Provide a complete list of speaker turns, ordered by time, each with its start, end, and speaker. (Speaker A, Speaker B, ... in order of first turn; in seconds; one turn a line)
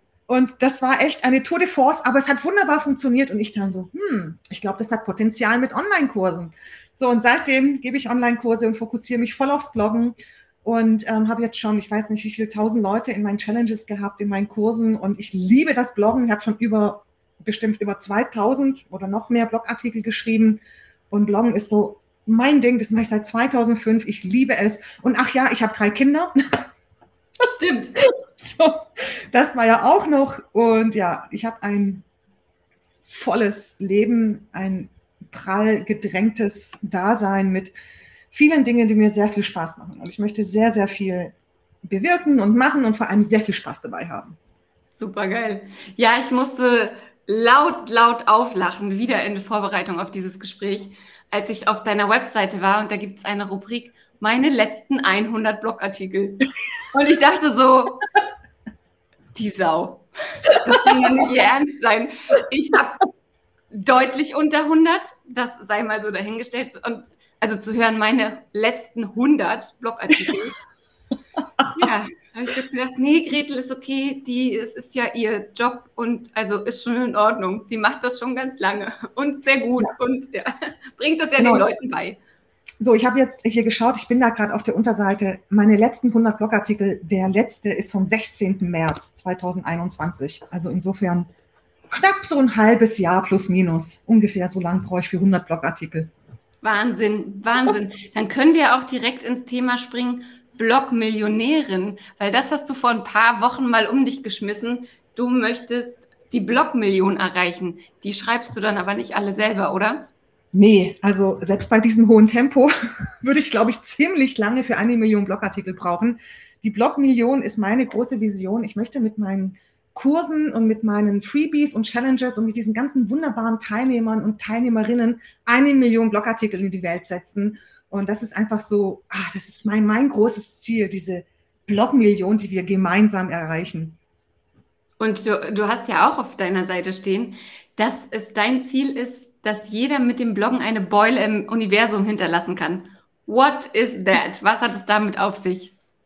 Speaker A: 0.3-26.6
Speaker B: 27.4-28.0
Speaker A: 28.0-32.0
Speaker A: 33.1-37.7
Speaker A: 38.3-41.3
Speaker A: 41.9-44.3
Speaker B: 44.9-58.0
Speaker B: 59.4-63.1
Speaker A: 60.5-60.9
Speaker B: 63.7-70.6
Speaker B: 71.8-82.2
Speaker A: 81.4-81.7
Speaker A: 82.8-91.3
Speaker A: 91.9-96.1
Speaker B: 96.6-110.1
Speaker A: 110.5-134.0
Speaker B: 135.0-145.7